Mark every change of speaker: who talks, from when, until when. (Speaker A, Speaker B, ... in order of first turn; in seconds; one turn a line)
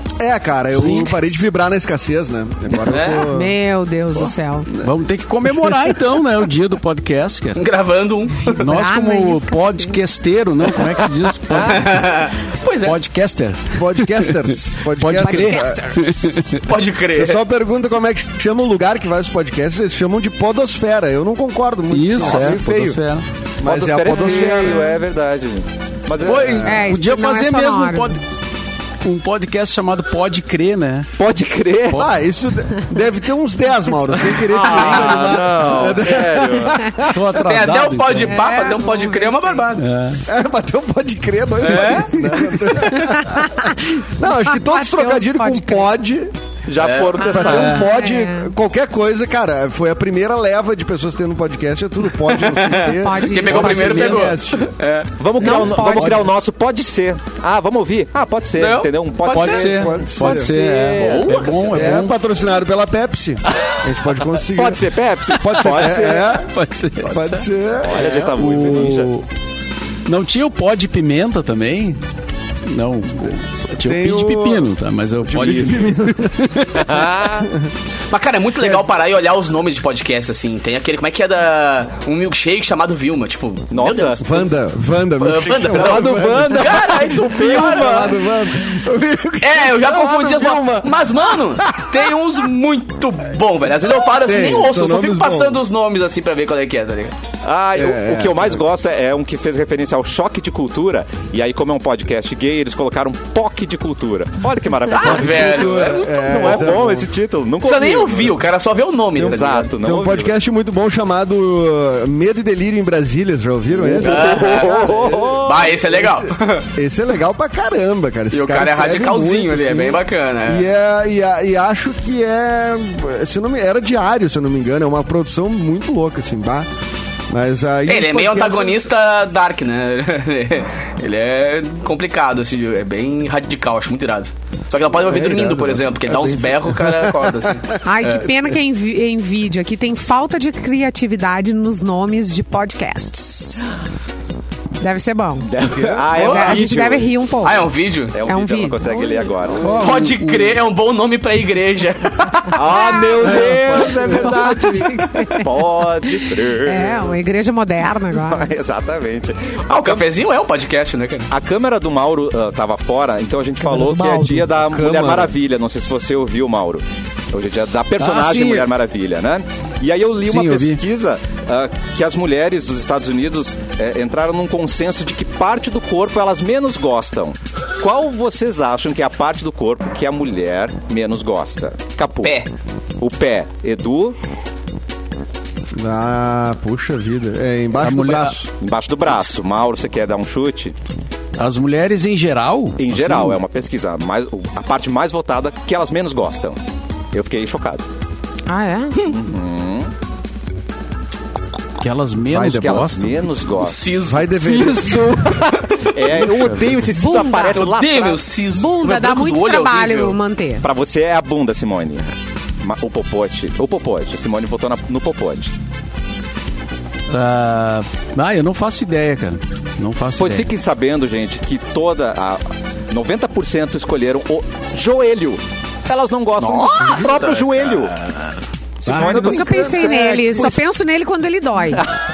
Speaker A: 0.2-3.6
Speaker B: 0.7-1.3
Speaker C: 2.8-3.3
Speaker D: 3.3-4.7
Speaker B: 4.8-7.7
Speaker A: 5.5-5.9
Speaker C: 7.6-8.6
Speaker B: 8.6-12.1
Speaker D: 8.6-10.0
Speaker C: 11.5-13.0
Speaker B: 12.8-16.7
Speaker A: 13.7-15.9
Speaker D: 15.2-16.4
Speaker C: 16.6-17.4
Speaker A: 17.1-23.0
Speaker B: 21.9-23.2
Speaker E: 22.2-22.6
Speaker A: 23.6-24.9
Speaker E: 23.6-26.8
Speaker B: 26.2-28.2
Speaker D: 26.6-28.2
Speaker B: 29.0-31.1
Speaker E: 31.2-32.1
Speaker A: 31.9-37.4
Speaker E: 34.3-37.0
Speaker C: 34.7-35.1
Speaker B: 37.1-38.5
Speaker C: 37.3-39.9
Speaker D: 38.2-39.7
Speaker B: 39.8-40.2
Speaker A: 40.3-46.3
Speaker C: 41.6-42.4
Speaker D: 42.8-45.9
Speaker E: 46.7-47.8
Speaker C: 46.8-47.4
Speaker D: 47.2-48.5
Speaker A: 47.2-54.7
Speaker C: 52.3-55.5
Speaker D: 52.8-54.3
Speaker E: 55.2-61.5
Speaker D: 55.4-56.3
Speaker B: 55.8-56.3
Speaker C: 58.6-62.1
Speaker B: 59.3-62.2
Speaker A: 59.6-60.5
Speaker A: 61.7-66.5
Speaker E: 64.5-66.4
Speaker B: 65.5-67.5
Speaker A: 67.0-68.9
Speaker E: 67.8-69.1
Speaker B: 68.3-69.2
Speaker B: 70.1-72.0
Speaker B: 72.7-76.9
Speaker A: 73.8-74.7
Speaker A: 75.2-77.7
Speaker E: 75.4-75.8
Speaker E: 76.7-77.5
Speaker C: 78.1-84.4
Speaker A: 78.6-78.9
Speaker E: 83.7-84.2
Speaker A: 84.2-92.1
Speaker C: 85.2-88.3
Speaker E: 85.7-88.1
Speaker C: 89.4-97.1
Speaker A: 94.0-95.6
Speaker E: 97.4-108.4
Speaker A: 97.8-98.6
Speaker C: 104.9-106.8
Speaker A: 104.9-107.1
Speaker C: 107.6-109.7
Speaker A: 109.2-126.7
Speaker E: 109.2-110.3
Speaker E: 113.7-115.8
Speaker C: 114.0-116.7
Speaker C: 118.3-120.7
Speaker A: 127.3-128.9
Speaker C: 127.9-138.3
Speaker A: 135.0-137.7
Speaker D: 137.8-143.6
Speaker D: 144.8-145.5
Speaker E: 145.5-147.1
Speaker A: 145.6-146.2
Speaker D: 146.1-147.7
Speaker C: 146.2-146.6
Speaker C: 147.4-148.2
Speaker E: 148.1-149.8
Speaker D: 148.2-149.3
Speaker B: 149.6-150.6
Speaker C: 149.8-152.6
Speaker D: 152.5-158.5
Speaker E: 152.5-157.1
Speaker A: 153.2-154.7
Speaker E: 158.1-160.1
Speaker C: 159.7-161.3
Speaker E: 161.3-182.5
Speaker A: 163.6-165.3
Speaker B: 168.0-168.7
Speaker B: 170.2-170.8
Speaker C: 182.2-182.5
Speaker E: 183.0-184.2
Speaker A: 185.8-188.5
Speaker B: 187.8-188.4
Speaker E: 188.6-190.8
Speaker B: 191.4-193.4
Speaker E: 192.8-196.6
Speaker E: 197.1-197.9
Speaker D: 198.5-199.1
Speaker E: 199.1-199.9
Speaker B: 201.8-203.3
Speaker A: 202.3-203.0
Speaker E: 202.5-203.8
Speaker C: 203.5-206.3
Speaker A: 204.0-205.2
Speaker E: 204.4-208.2
Speaker A: 206.2-206.8
Speaker D: 206.9-207.7
Speaker C: 207.5-210.2
Speaker D: 208.5-210.7
Speaker E: 210.6-215.5
Speaker B: 217.1-220.5
Speaker E: 220.2-227.9
Speaker C: 226.4-227.8
Speaker E: 228.8-230.2
Speaker B: 228.9-229.2
Speaker A: 228.9-230.6
Speaker D: 229.0-231.9